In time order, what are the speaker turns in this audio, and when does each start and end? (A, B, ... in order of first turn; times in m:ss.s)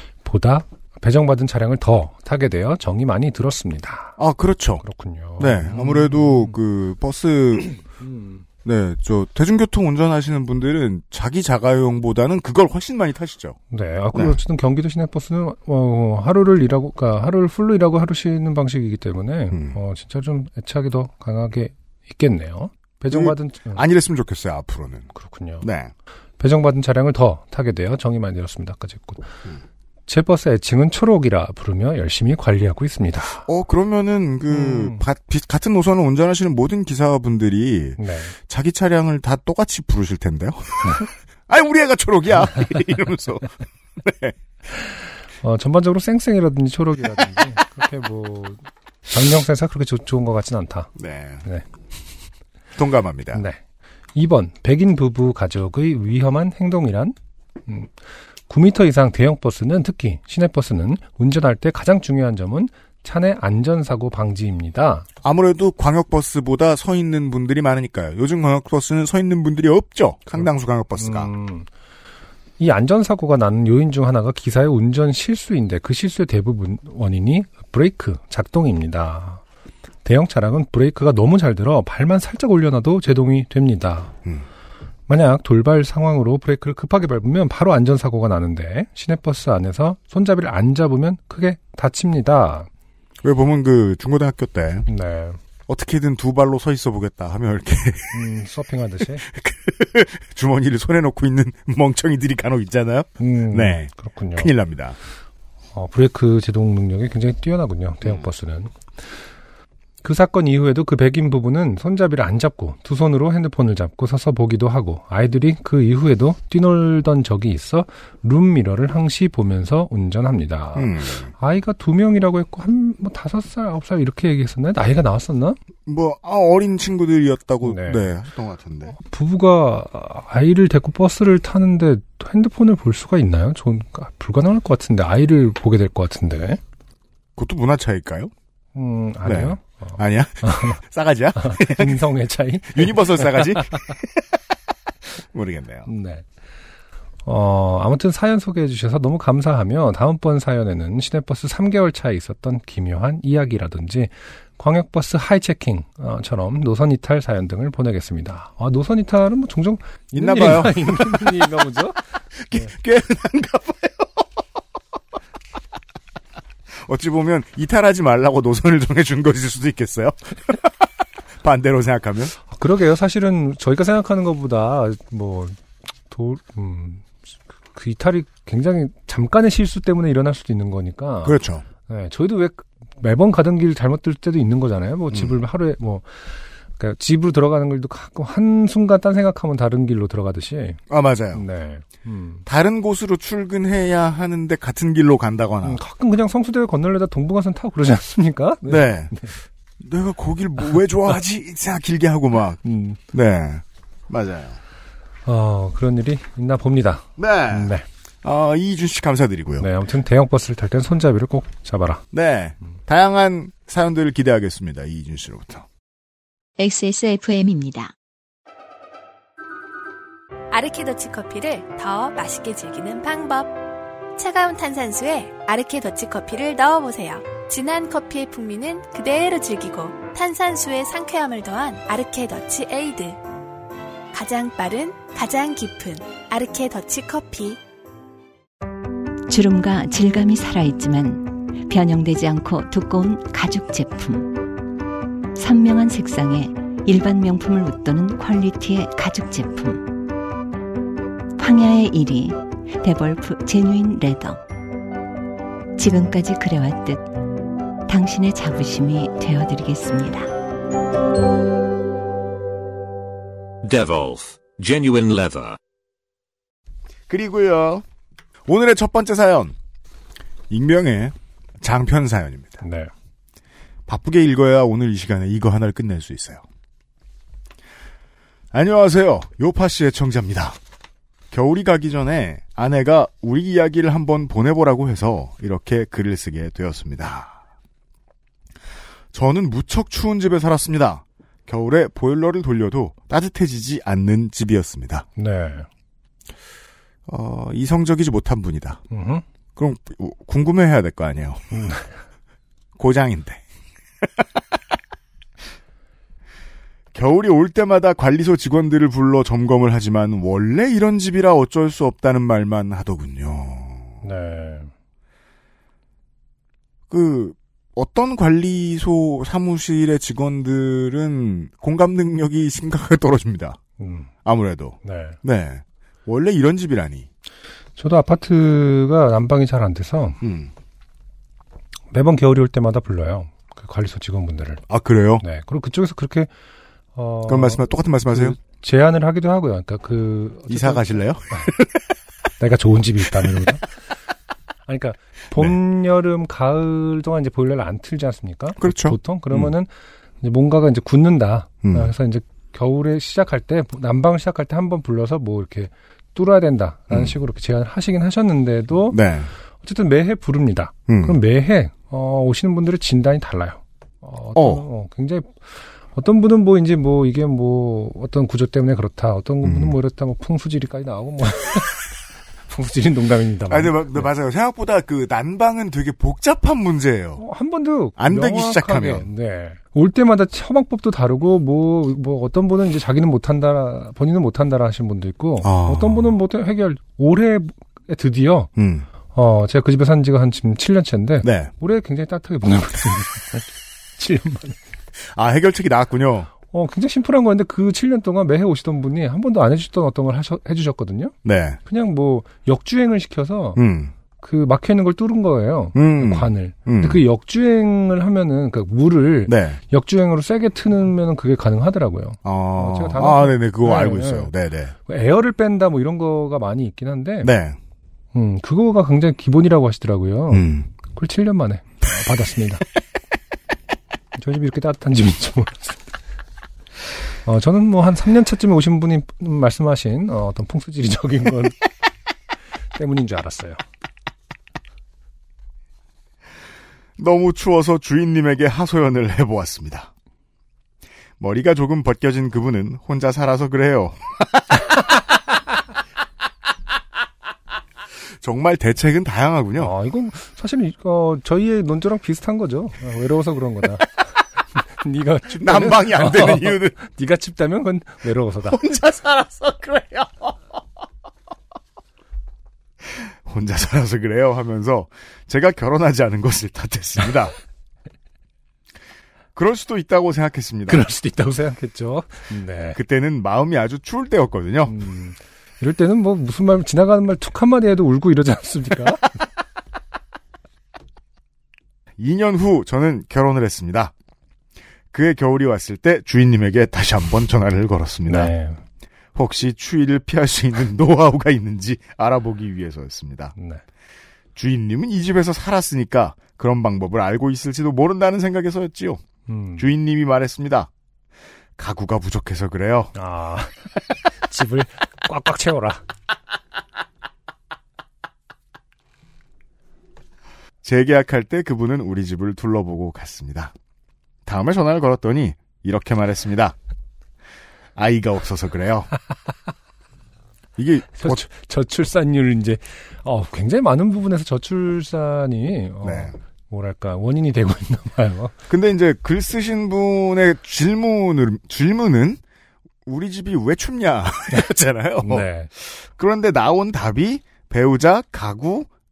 0:00.2-0:04.2 A
0:04.2-0:04.8 B
0:04.8-0:06.6 A
0:05.4-0:07.8 B
0:08.0-0:08.4 A
0:08.6-0:13.6 B
0:13.7-0:23.8 A
0:19.5-0:19.8 B
0:23.1-0:25.1 B
0:25.2-0:25.7 A
0:25.6-0:25.9 B
0:26.4-0:29.3 A
0:30.1-0:33.4 A
0:33.5-0:44.4 B
0:34.5-0:35.0 A
0:38.0-0:38.3 A
0:44.8-0:50.9 A
0:51.0-0:51.4 B
0:52.8-0:53.4 B
0:53.3-0:53.6 A
0:54.2-0:57.2 A
0:57.7-0:57.9 A
0:58.5-1:05.1 A
1:05.2-1:11.3 B
1:11.0-1:11.7 A
1:12.6-1:19.4 A
1:20.0-1:24.1 A
1:25.1-1:32.7 A
1:33.2-1:34.9 B
1:34.9-1:35.4 A
1:35.7-1:38.3 B
1:38.1-1:39.3 A
1:39.2-1:45.0 B
1:43.2-1:44.5 A
1:45.7-1:48.8 A
1:50.0-2:05.6 A
2:00.8-2:01.3 B
2:05.9-2:09.0 B
2:07.6-2:08.1 A
2:09.0-2:16.6 A
2:17.4-2:18.3 B
2:18.8-2:20.8 A
2:19.2-2:22.1 B
2:21.4-2:23.9 A
2:22.7-2:24.2 B
2:25.3-2:25.9 B
2:25.9-2:26.3 A
2:27.3-2:42.7 A
2:40.1-2:41.5 B
2:42.4-2:44.3 B
2:46.8-2:50.7 B
2:51.4-2:52.4 B
2:52.5-2:55.6 A
2:56.1-2:57.1 A
2:57.7-3:10.8 A
3:01.2-3:01.6 B
3:10.9-3:11.4 B
3:11.3-3:12.4 A
3:12.5-3:15.8 B
3:15.6-3:19.4 A
3:18.7-3:19.1 B
3:19.8-3:22.6 B
3:22.6-3:23.0 A
3:23.1-3:24.6 B
3:25.3-3:27.8 A
3:27.2-3:29.7 B
3:29.6-3:32.0 A
3:32.1-3:35.7 B
3:36.6-3:37.9 C
3:40.5-3:43.5 D
3:44.2-3:53.2 D
3:54.1-3:57.6 D
3:59.3-4:04.4 C
4:05.4-4:09.9 C
4:11.4-4:14.4 C
4:15.8-4:17.1 C
4:17.9-4:20.3 C
4:23.6-4:25.6 E
4:27.1-4:27.8 B
4:28.5-4:29.6 B
4:30.5-4:32.6 B
4:32.6-4:32.9 A
4:33.9-4:36.4 B
4:38.5-4:40.6 B
4:41.3-4:47.4 B
4:49.1-4:55.1 B
4:55.2-4:55.7 A
4:57.1-4:58.8 B
4:58.9-4:59.2 A
4:59.6-5:01.6 B
5:01.5-5:01.9 A
5:02.8-5:03.4 B
5:06.9-5:14.0 B
5:14.0-5:14.7 A
5:16.9-5:23.6 B
5:23.8-5:24.1 A
5:24.2-5:27.1 B
5:24.8-5:25.2 A
5:27.8-5:30.2 A
5:30.2-5:30.5 B
5:31.9-5:34.6 A
5:34.7-5:35.2 B
5:35.2-5:36.3 A
5:37.0-5:41.5 A
5:37.3-5:38.4 B
5:40.5-5:41.8 B
5:42.4-5:43.8 A
5:44.7-5:49.7 A
5:48.6-5:49.5 B
5:50.2-5:59.0 A
5:51.6-5:51.9 B
5:58.9-5:59.3 B
5:59.6-6:11.8 A
6:00.9-6:01.2 B
6:04.4-6:04.6 B
6:09.4-6:09.8 B
6:12.5-6:14.1 A
6:13.5-6:17.2 B
6:17.2-6:28.5 A
6:18.0-6:19.1 B
6:25.4-6:26.1 B
6:28.6-6:28.9 B
6:29.1-6:34.6 A
6:31.2-6:31.5 B
6:35.1-6:36.3 B
6:36.5-6:41.1 A
6:41.2-6:41.6 B
6:41.7-6:43.6 A
6:43.6-6:43.9 B
6:44.2-6:54.3 A
6:45.8-6:47.0 B
6:49.3-6:49.6 B
6:52.2-6:54.7 B
6:54.9-6:57.3 A
6:57.2-6:57.6 B
6:58.1-7:02.6 A
7:00.3-7:00.7 B
7:04.2-7:05.9 A
7:07.2-7:11.6 A
7:12.8-7:13.6 A
7:17.0-7:19.9 B
7:21.2-7:24.6 B
7:28.2-7:29.7 B
7:29.6-7:38.6 A
7:35.3-7:36.8 B
7:38.5-7:40.4 B
7:42.8-7:47.3 B
7:49.4-7:50.9 B
7:50.7-7:52.8 A
7:52.7-7:54.8 B
7:54.7-7:59.2 A
8:02.0-8:03.9 B
8:04.9-8:08.3 B
8:08.1-8:08.6 A
8:09.2-8:13.3 B
8:13.4-8:13.6 A
8:14.4-8:19.0 B
8:19.3-8:19.7 A
8:19.6-8:20.7 B
8:21.6-8:22.9 B
8:23.0-8:23.6 A
8:24.3-8:25.8 A
8:30.6-8:33.6 B
8:34.3-8:36.6 B
8:37.8-8:38.9 B
8:40.6-8:41.3 B
8:41.0-8:48.3 A
8:45.8-8:46.2 B
8:48.5-8:52.2 B
8:52.9-8:58.7 B
8:55.0-8:55.5 A